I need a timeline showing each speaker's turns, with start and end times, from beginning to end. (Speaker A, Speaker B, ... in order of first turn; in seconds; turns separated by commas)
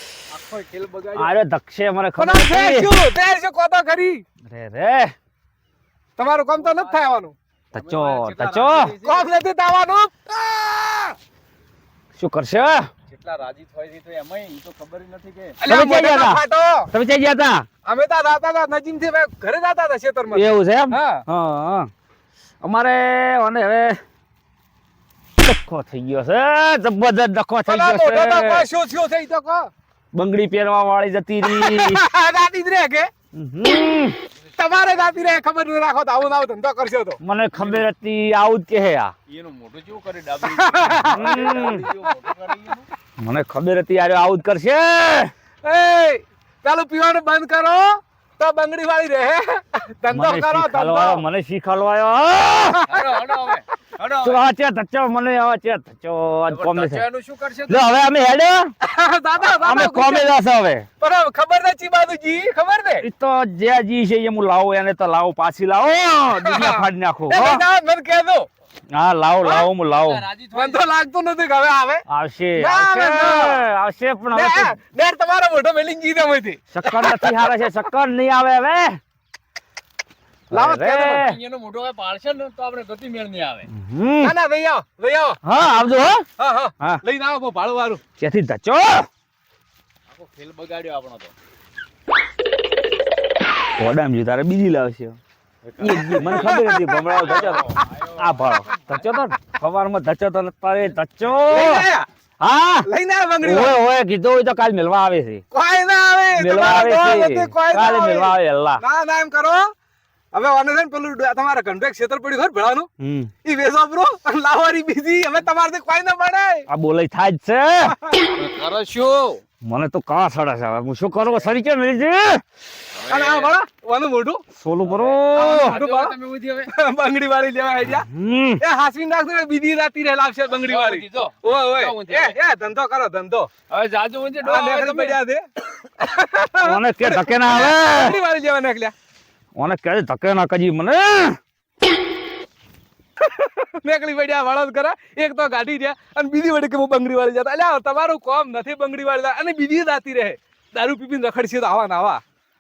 Speaker A: 0.3-1.4, Speaker B: 1.1-2.9, Speaker C: 2.2-4.2, Speaker B: 4.5-5.1, Speaker C: 6.2-7.3, Speaker A: 6.6-7.0, Speaker A: 7.7-9.3, Speaker B: 7.7-8.9, Speaker C: 9.0-11.2, Speaker B: 12.2-12.9, Speaker A: 13.1-15.6, Speaker C: 15.6-16.9, Speaker B: 15.7-17.7, Speaker C: 17.9-21.2, Speaker B: 20.3-21.9, Speaker B: 22.6-24.0, Speaker B: 25.4-28.6, Speaker C: 27.7-29.7, Speaker B: 30.1-32.0, Speaker C: 31.4-33.1, Speaker B: 33.4-34.2, Speaker A: 34.5-35.4, Speaker C: 34.6-37.2, Speaker B: 37.2-39.1, Speaker A: 37.5-37.8, Speaker A: 39.3-42.9, Speaker C: 40.4-41.7, Speaker B: 41.1-41.9, Speaker B: 43.2-45.3, Speaker C: 45.6-51.2, Speaker B: 50.1-52.8, Speaker C: 52.7-53.0, Speaker A: 52.9-54.4, Speaker B: 54.2-57.0, Speaker A: 56.5-57.9, Speaker B: 57.7-58.7, Speaker C: 58.8-60.3, Speaker B: 59.4-60.9, Speaker C: 61.0-63.1, Speaker B: 63.0-67.6, Speaker C: 66.4-68.5, Speaker B: 68.9-70.2, Speaker A: 70.0-70.8, Speaker C: 70.5-72.0, Speaker B: 72.1-74.8, Speaker C: 72.6-73.7, Speaker C: 74.3-77.4, Speaker B: 76.7-79.0, Speaker C: 80.5-81.2, Speaker B: 80.5-81.4, Speaker A: 81.1-83.7, Speaker B: 83.7-84.3, Speaker C: 84.2-85.4, Speaker B: 85.4-86.2, Speaker C: 86.4-88.0, Speaker B: 88.2-89.1, Speaker A: 90.1-91.3, Speaker B: 93.8-95.2, Speaker A: 95.6-96.6, Speaker B: 95.8-101.9, Speaker C: 96.3-97.0, Speaker A: 97.2-99.2, Speaker C: 101.5-102.1, Speaker B: 102.4-102.9, Speaker C: 102.8-103.8, Speaker B: 103.4-105.4, Speaker C: 105.5-109.7, Speaker B: 106.3-108.8, Speaker C: 110.3-112.9, Speaker B: 113.0-113.3, Speaker C: 113.4-116.7, Speaker B: 116.7-118.0, Speaker C: 117.9-118.2, Speaker A: 118.3-119.4, Speaker B: 119.6-122.4, Speaker A: 123.0-123.5, Speaker C: 123.1-124.4, Speaker B: 124.6-125.8, Speaker A: 124.8-126.7, Speaker C: 125.4-126.1, Speaker C: 126.7-128.1, Speaker B: 127.9-128.6, Speaker C: 128.6-133.5, Speaker A: 130.5-132.4, Speaker A: 133.7-135.2, Speaker C: 134.4-135.4, Speaker C: 136.0-138.9, Speaker B: 136.6-138.2, Speaker B: 139.6-141.4, Speaker C: 143.2-152.2